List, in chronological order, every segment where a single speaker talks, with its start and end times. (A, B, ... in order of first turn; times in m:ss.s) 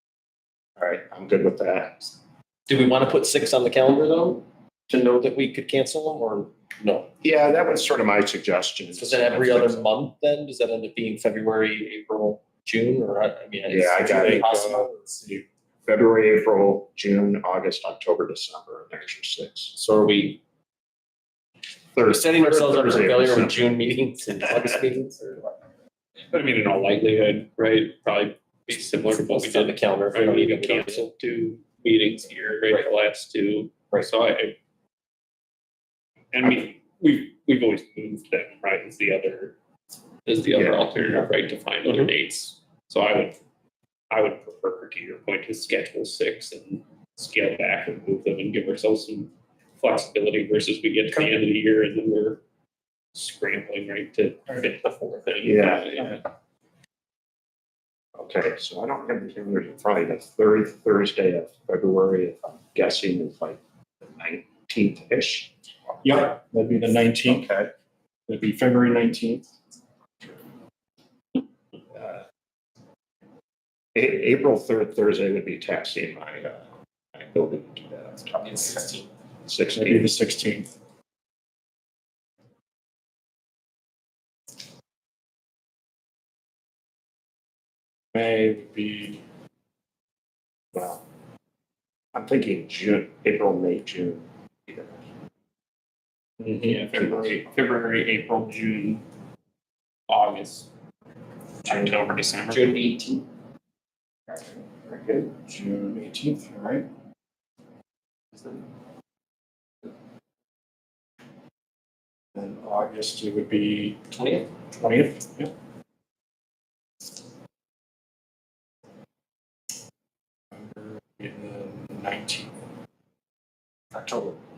0:00.8-0:02.2 A
0:02.7-0:07.1 B
0:07.2-0:09.8 A
0:08.9-0:14.7 B
0:13.7-0:14.8 A
0:14.0-0:15.4 C
0:15.8-0:19.8 A
0:19.7-0:20.4 B
0:21.9-0:23.9 A
0:22.0-0:25.5 B
0:26.3-0:34.6 D
0:29.1-0:31.1 B
0:36.3-0:39.5 D
0:40.2-0:43.4 D
0:40.5-0:40.8 A
0:44.1-0:52.4 D
0:53.1-0:56.2 D
0:55.4-0:56.0 A
0:58.2-1:03.6 A
1:04.1-1:05.5 A
1:06.0-1:07.5 C
1:07.2-1:07.7 A
1:08.3-1:09.5 C
1:13.9-1:20.1 A
1:18.6-1:19.0 B
1:19.7-1:20.7 C
1:28.1-1:29.2 C
1:30.7-1:31.0 A
1:32.1-1:35.0 A
1:36.6-1:39.0 D
1:37.0-1:37.4 A
1:40.1-1:40.7 D
1:41.6-1:42.9 D
1:42.5-1:43.2 B
1:45.3-1:46.8 C
1:52.3-1:54.0 C
1:54.1-1:54.5 B
1:54.8-1:55.5 C
2:00.5-2:02.5 C
2:03.9-2:04.4 B